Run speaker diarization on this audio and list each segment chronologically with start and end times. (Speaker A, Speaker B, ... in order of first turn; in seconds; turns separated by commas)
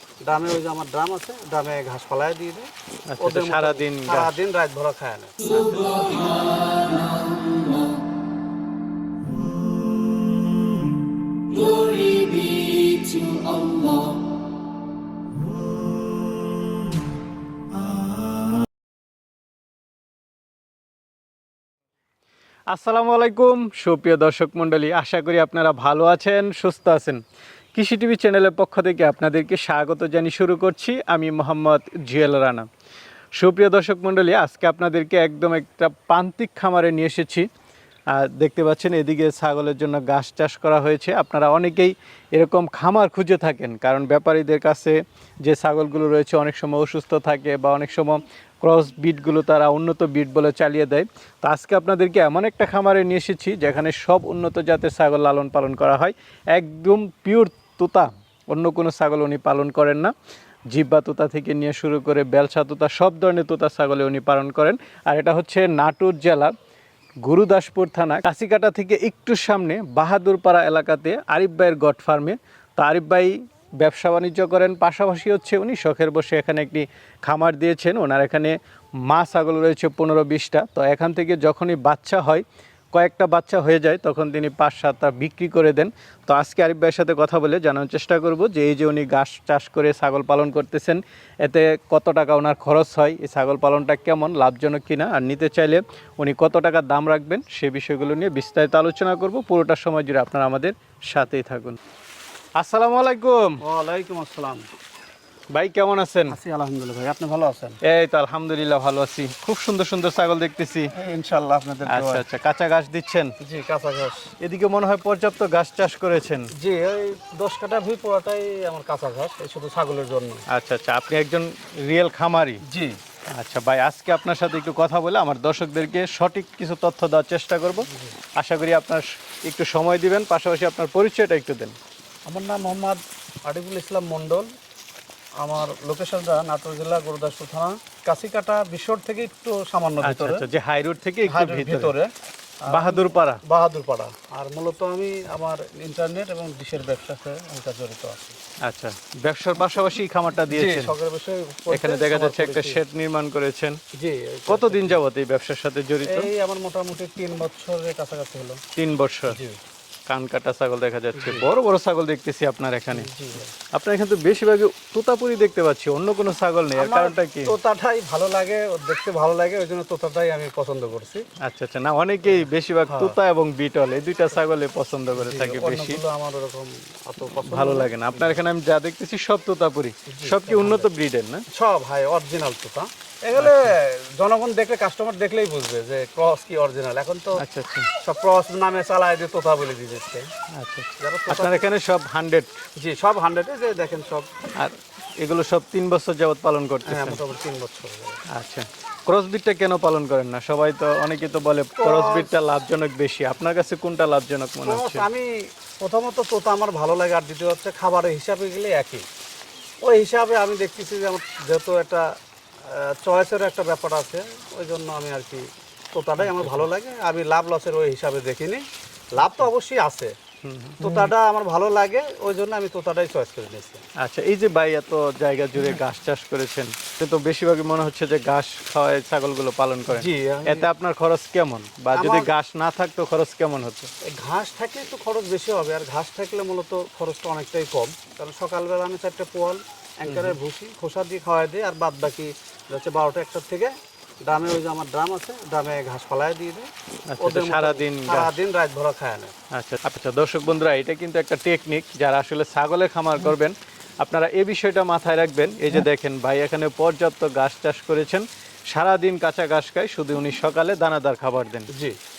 Speaker A: 0.2-6.0, Speaker B: 3.1-4.4, Speaker A: 13.0-13.8, Speaker B: 22.7-27.2, Speaker B: 27.8-32.7, Speaker B: 33.4-37.5, Speaker B: 38.1-60.1, Speaker B: 60.7-66.5, Speaker B: 67.2-101.8, Speaker B: 102.6-103.6, Speaker A: 103.6-104.7, Speaker B: 105.5-106.4, Speaker A: 106.3-107.8, Speaker B: 107.8-110.9, Speaker A: 110.9-112.2, Speaker B: 111.9-113.3, Speaker A: 113.4-114.3, Speaker B: 114.4-116.5, Speaker A: 116.6-120.4, Speaker B: 120.5-122.6, Speaker A: 122.7-123.0, Speaker B: 123.3-131.8, Speaker A: 127.9-128.2, Speaker A: 132.3-134.5, Speaker A: 135.4-140.4, Speaker B: 140.0-141.9, Speaker A: 141.3-142.1, Speaker A: 142.6-148.4, Speaker B: 142.7-143.4, Speaker B: 148.6-150.9, Speaker A: 150.5-152.8, Speaker B: 151.7-153.8, Speaker A: 154.0-155.0, Speaker B: 154.5-156.3, Speaker A: 156.1-158.6, Speaker B: 158.8-159.4, Speaker A: 159.3-159.6, Speaker B: 160.1-163.1, Speaker A: 161.2-161.5, Speaker A: 162.9-163.5, Speaker B: 163.7-167.5, Speaker A: 166.8-171.2, Speaker B: 171.4-176.0, Speaker A: 172.3-173.2, Speaker A: 175.2-178.4, Speaker B: 177.3-181.4, Speaker A: 180.1-180.9, Speaker A: 181.5-187.4, Speaker B: 183.4-183.7, Speaker B: 187.4-187.9, Speaker A: 188.0-190.3, Speaker B: 190.5-192.5, Speaker A: 191.0-191.7, Speaker A: 192.8-194.3, Speaker B: 194.6-197.2, Speaker A: 196.9-198.2, Speaker B: 198.3-205.1, Speaker A: 201.8-202.3, Speaker A: 204.7-209.1, Speaker A: 209.8-212.1, Speaker A: 212.7-218.6, Speaker B: 216.2-216.7, Speaker A: 219.2-220.2, Speaker B: 219.2-219.5, Speaker B: 220.4-221.1, Speaker A: 220.8-223.8, Speaker B: 224.0-233.9, Speaker A: 229.9-230.7, Speaker A: 231.9-232.3, Speaker A: 234.0-243.7, Speaker B: 240.1-240.4, Speaker A: 244.2-249.3, Speaker B: 247.1-248.4, Speaker B: 249.5-261.7, Speaker A: 261.7-262.0